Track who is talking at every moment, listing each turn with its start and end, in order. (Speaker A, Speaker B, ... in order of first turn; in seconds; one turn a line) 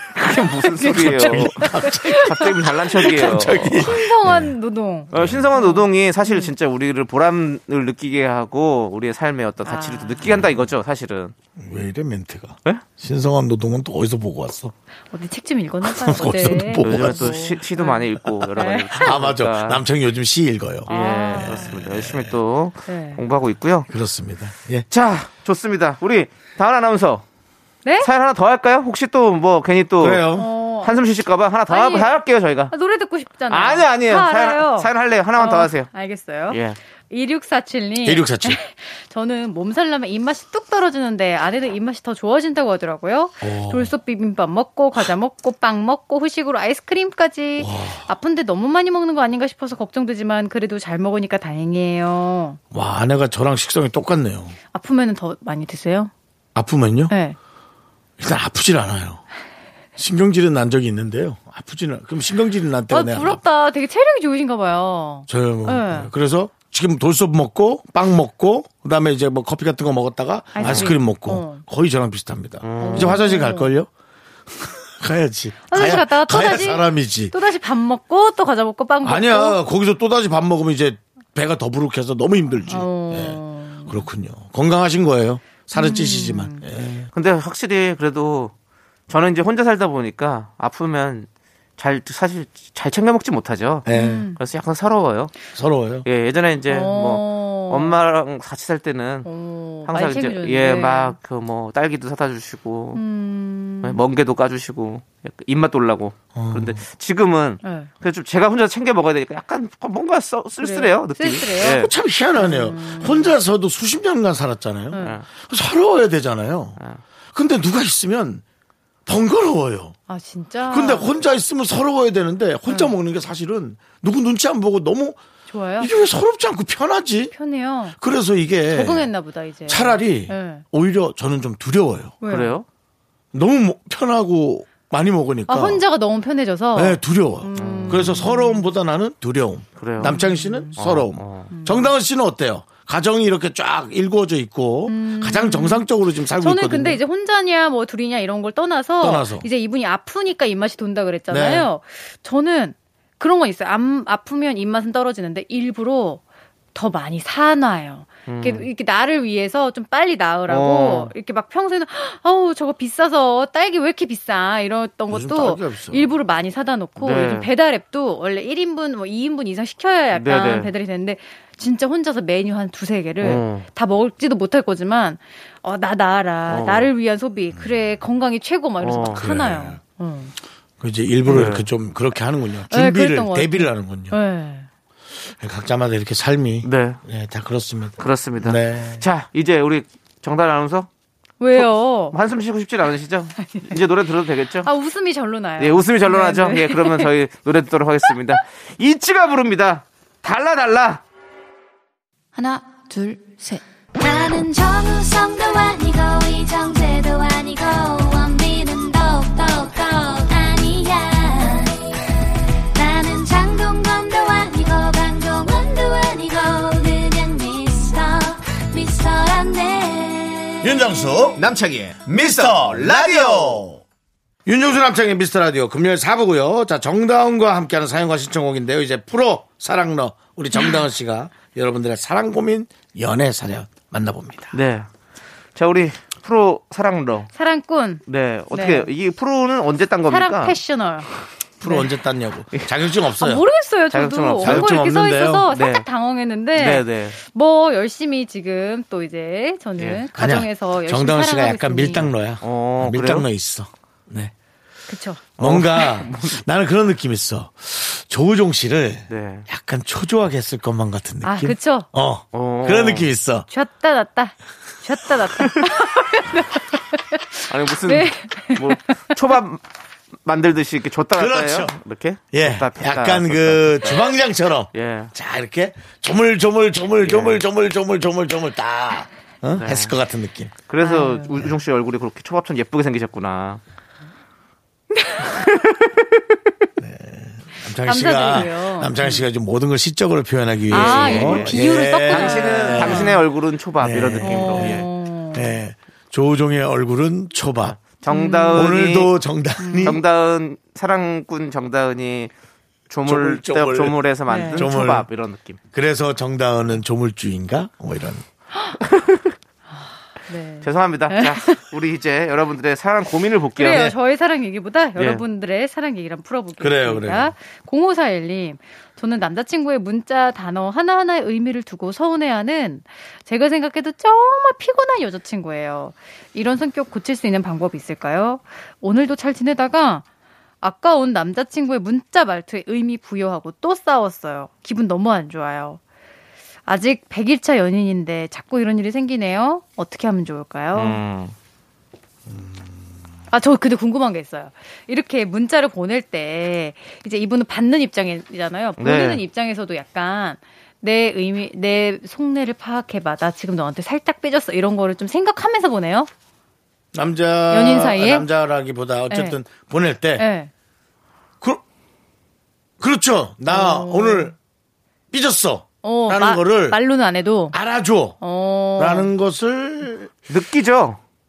Speaker A: 0.1-3.9
Speaker B: 0.8-6.5
Speaker C: 0.9-4.6
Speaker C: 5.1-5.5
Speaker A: 5.1-11.3
Speaker B: 9.6-10.3
Speaker C: 11.6-14.7
Speaker B: 15.1-19.2
Speaker C: 15.8-17.4
Speaker A: 16.8-19.8
Speaker C: 18.4-20.9
Speaker B: 20.9-21.8
Speaker A: 20.9-23.9
Speaker C: 21.4-22.4
Speaker B: 22.9-23.2
Speaker C: 23.9-24.9
Speaker A: 24.9-27.2
Speaker A: 28.0-30.2
Speaker C: 30.0-30.5
Speaker B: 30.3-30.9
Speaker A: 30.8-32.7
Speaker B: 31.7-32.1
Speaker B: 32.7-52.6
Speaker A: 33.5-35.9
Speaker A: 36.5-36.8
Speaker C: 38.0-38.6
Speaker C: 43.4-43.9
Speaker C: 47.6-48.1
Speaker C: 52.7-54.6
Speaker B: 54.7-56.1
Speaker C: 56.5-57.1
Speaker B: 57.1-57.4
Speaker C: 58.2-59.2
Speaker C: 60.0-63.4
Speaker B: 62.9-66.1
Speaker C: 65.3-73.9
Speaker B: 70.5-71.7
Speaker A: 70.6-71.0
Speaker A: 72.6-73.2
Speaker B: 72.8-73.7
Speaker C: 74.5-77.3
Speaker B: 75.7-79.6
Speaker C: 79.0-87.1
Speaker B: 82.7-84.0
Speaker B: 85.7-86.6
Speaker A: 87.1-88.5
Speaker A: 89.1-95.3
Speaker C: 93.8-94.3
Speaker B: 93.9-94.4
Speaker C: 95.5-96.1
Speaker A: 96.0-99.3
Speaker B: 96.7-98.0
Speaker B: 99.2-101.2
Speaker A: 99.9-103.0
Speaker B: 102.9-104.0
Speaker A: 103.8-111.9
Speaker C: 106.3-106.8
Speaker B: 107.6-107.9
Speaker B: 110.6-113.3
Speaker C: 111.6-116.8
Speaker B: 114.9-115.2
Speaker A: 115.0-115.2
Speaker C: 117.3-118.4
Speaker C: 119.1-120.0
Speaker B: 120.1-121.1
Speaker C: 120.7-125.2
Speaker B: 122.7-122.9
Speaker B: 125.5-125.9
Speaker C: 125.8-127.3
Speaker B: 127.3-128.0
Speaker C: 128.0-129.1
Speaker B: 128.7-130.6
Speaker C: 129.7-132.2
Speaker B: 132.2-132.6
Speaker A: 132.3-132.7
Speaker C: 133.3-135.8
Speaker B: 135.5-138.7
Speaker C: 136.8-147.0
Speaker A: 137.6-138.1
Speaker A: 139.8-140.2
Speaker B: 140.0-140.8
Speaker A: 140.8-141.5
Speaker B: 141.5-141.9
Speaker B: 144.9-156.2
Speaker C: 149.0-149.5
Speaker C: 151.3-151.7
Speaker B: 156.7-180.3
Speaker A: 158.3-158.7
Speaker A: 160.5-161.1
Speaker C: 165.1-166.1
Speaker A: 167.0-167.5
Speaker A: 170.1-170.7
Speaker A: 173.2-173.7
Speaker A: 176.5-176.9
Speaker A: 178.8-179.2
Speaker C: 179.2-179.8
Speaker C: 180.8-184.2
Speaker A: 181.3-181.7
Speaker B: 182.7-184.7
Speaker C: 185.2-189.1
Speaker A: 186.6-187.0
Speaker A: 188.0-190.9
Speaker B: 191.4-192.2
Speaker A: 191.6-194.7
Speaker B: 193.4-193.8
Speaker B: 194.6-197.1
Speaker A: 195.6-201.0
Speaker D: 204.0-211.8
Speaker D: 212.7-220.8
Speaker C: 220.6-223.8
Speaker A: 221.4-223.6
Speaker C: 224.5-234.5
Speaker A: 234.5-234.9
Speaker A: 235.6-237.3
Speaker B: 237.3-238.9
Speaker A: 238.1-240.6
Speaker B: 240.1-241.1
Speaker C: 241.6-243.5
Speaker B: 241.7-241.9
Speaker B: 243.0-252.1
Speaker A: 243.9-244.8
Speaker C: 244.4-245.5
Speaker A: 245.5-245.9
Speaker A: 246.5-247.2
Speaker A: 249.8-250.0
Speaker C: 250.2-254.3
Speaker A: 252.4-253.3
Speaker B: 254.9-255.3
Speaker A: 255.4-256.4
Speaker C: 255.4-263.5
Speaker A: 259.1-259.5
Speaker B: 261.2-261.9
Speaker A: 262.3-263.1
Speaker B: 263.5-268.9
Speaker A: 267.5-269.6
Speaker A: 270.2-274.1
Speaker C: 271.2-271.8
Speaker C: 272.3-280.6
Speaker A: 274.7-275.1
Speaker A: 277.0-277.4
Speaker A: 279.5-279.9
Speaker A: 280.7-283.6
Speaker B: 280.8-281.4
Speaker A: 285.2-286.2
Speaker C: 286.8-293.2
Speaker B: 287.8-289.1
Speaker B: 290.7-293.2
Speaker A: 290.7-294.9
Speaker C: 293.8-297.8
Speaker B: 294.2-295.5
Speaker A: 297.7-299.1
Speaker B: 298.1-298.8
Speaker C: 298.5-300.0
Speaker B: 299.6-300.0
Speaker A: 299.8-302.3
Speaker A: 302.9-305.6
Speaker C: 303.1-305.1
Speaker B: 304.3-304.7
Speaker C: 305.7-308.2
Speaker A: 308.8-309.3
Speaker B: 309.7-311.6
Speaker A: 310.6-313.9
Speaker B: 313.6-330.1
Speaker A: 315.0-315.2
Speaker C: 316.6-317.3
Speaker B: 330.6-335.8
Speaker B: 336.7-341.0
Speaker A: 340.7-341.3
Speaker B: 343.3-356.1
Speaker A: 348.8-349.2
Speaker C: 356.9-360.3
Speaker B: 357.5-358.2
Speaker B: 359.1-359.4
Speaker B: 360.2-360.5
Speaker C: 362.8-364.3
Speaker B: 363.5-364.3
Speaker C: 365.1-366.8
Speaker B: 365.8-367.6
Speaker C: 367.5-368.2
Speaker B: 368.2-369.1
Speaker C: 368.8-370.1
Speaker A: 370.3-371.0